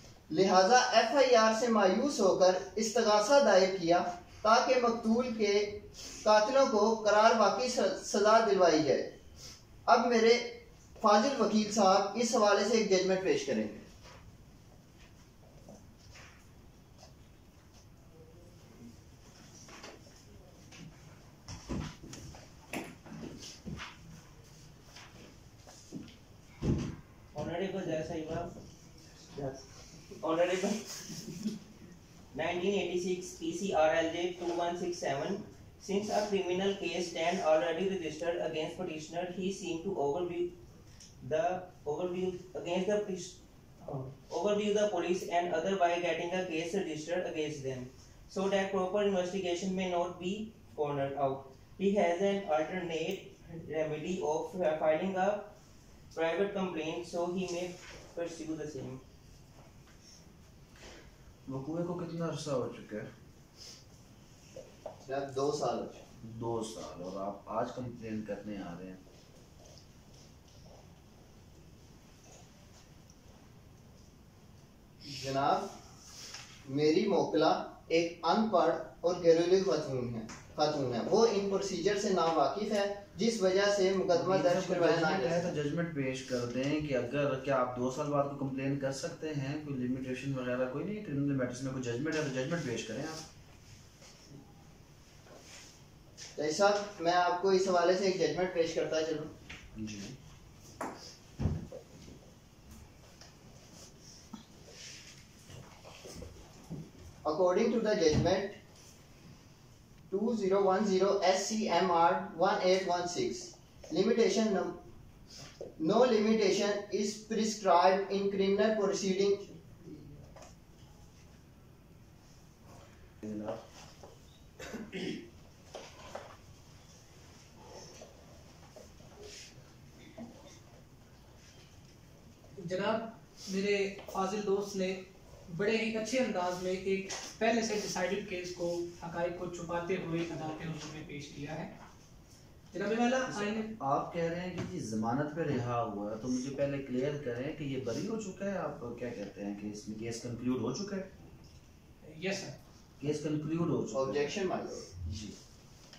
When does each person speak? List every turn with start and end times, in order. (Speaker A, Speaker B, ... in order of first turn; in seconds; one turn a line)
Speaker A: 0.3-9.1
Speaker A: 9.9-13.9
Speaker B: 27.3-28.5
Speaker B: 29.3-31.5
Speaker B: 32.3-40.5
Speaker B: 41.2-43.4
Speaker B: 43.9-55.5
Speaker B: 56.1-59.0
Speaker C: 61.5-63.1
Speaker A: 65.0-66.0
Speaker C: 66.2-69.0
Speaker A: 75.0-75.7
Speaker A: 76.7-85.5
Speaker C: 84.1-93.2
Speaker A: 96.4-99.3
Speaker C: 99.8-100.2
Speaker A: 107.2-108.6
Speaker A: 110.1-114.8
Speaker A: 115.8-119.6
Speaker C: 123.2-123.6
Speaker D: 132.6-141.7
Speaker D: 142.7-143.7
Speaker C: 143.3-151.1
Speaker D: 152.0-152.6
Speaker C: 153.0-154.4
Speaker A: 153.9-154.9
Speaker C: 155.0-155.4